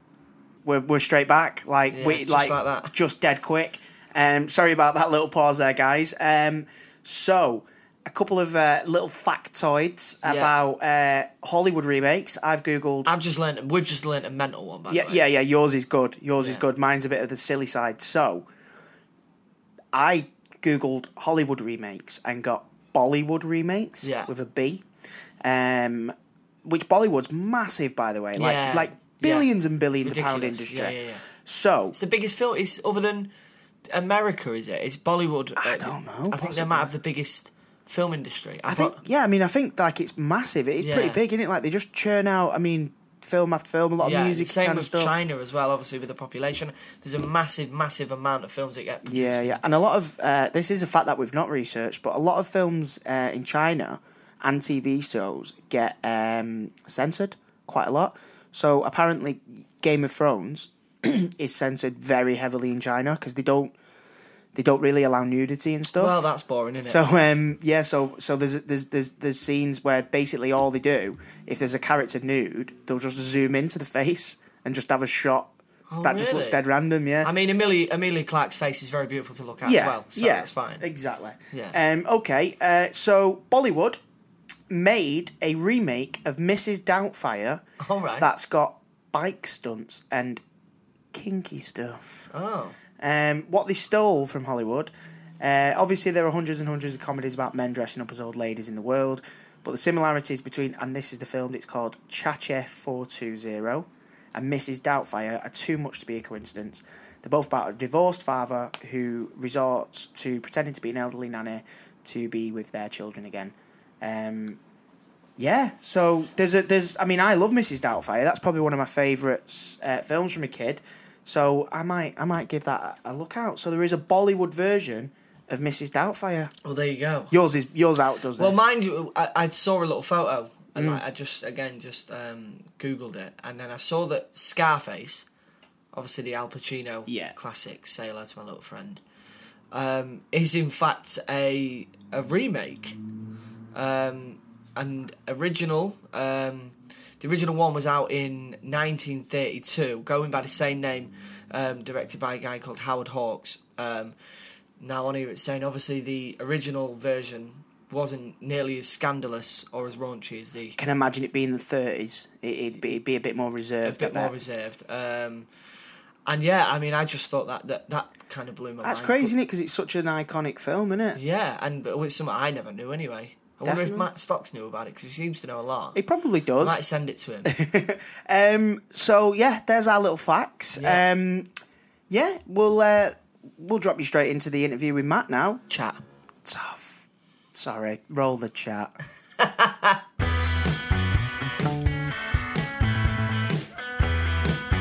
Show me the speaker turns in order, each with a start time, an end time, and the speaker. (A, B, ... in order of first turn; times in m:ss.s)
0:00.6-0:13.1 A
0:01.9-0:02.9 B
0:10.2-0:10.6 B
0:13.0-0:15.2 B
0:14.9-0:18.5 A
0:19.9-0:24.8 A
0:24.0-0:24.3 B
0:25.4-0:26.1 A
0:26.6-0:32.0 A
0:28.4-0:29.5 B
0:30.0-0:31.3 B
0:31.9-0:33.3 B
0:33.9-0:39.0 B
0:35.6-0:36.9 A
0:38.7-0:45.2 A
0:40.8-0:41.2 B
0:44.0-0:49.6 B
0:49.1-1:03.8 A
1:04.6-1:06.3 A
1:06.0-1:07.0 B
1:06.8-1:15.5 A
1:15.9-1:16.7 B
1:16.0-1:17.3 A
1:17.2-1:20.8 B
1:19.6-1:24.0 A
1:21.5-1:21.8 B
1:24.7-1:27.6 A
1:27.8-1:28.3 B
1:28.2-1:30.4 A
1:31.1-1:32.0 A
1:32.3-1:32.8 B
1:33.0-1:54.6 A
1:55.4-2:06.5 A
2:06.6-2:07.4 B
2:07.3-2:08.7 A
2:08.4-2:15.3 B
2:10.8-2:11.0 A
2:15.9-2:19.0 B
2:17.1-2:17.3 A
2:19.7-2:23.0 B
2:23.7-2:34.2 B
2:34.8-2:40.8 B
2:40.8-2:44.3 A
2:43.8-2:45.5 B
2:46.3-2:49.3 B
2:48.8-2:51.2 A
2:51.2-2:56.0 B
2:53.6-2:54.1 A
2:56.0-2:56.8 A
2:56.6-2:57.6 B
2:57.4-3:01.5 A
3:00.8-3:01.1 B
3:02.1-3:05.6 A
3:05.7-3:06.0 B
3:06.4-3:07.0 A
3:07.5-3:08.9 A
3:09.4-3:09.9 B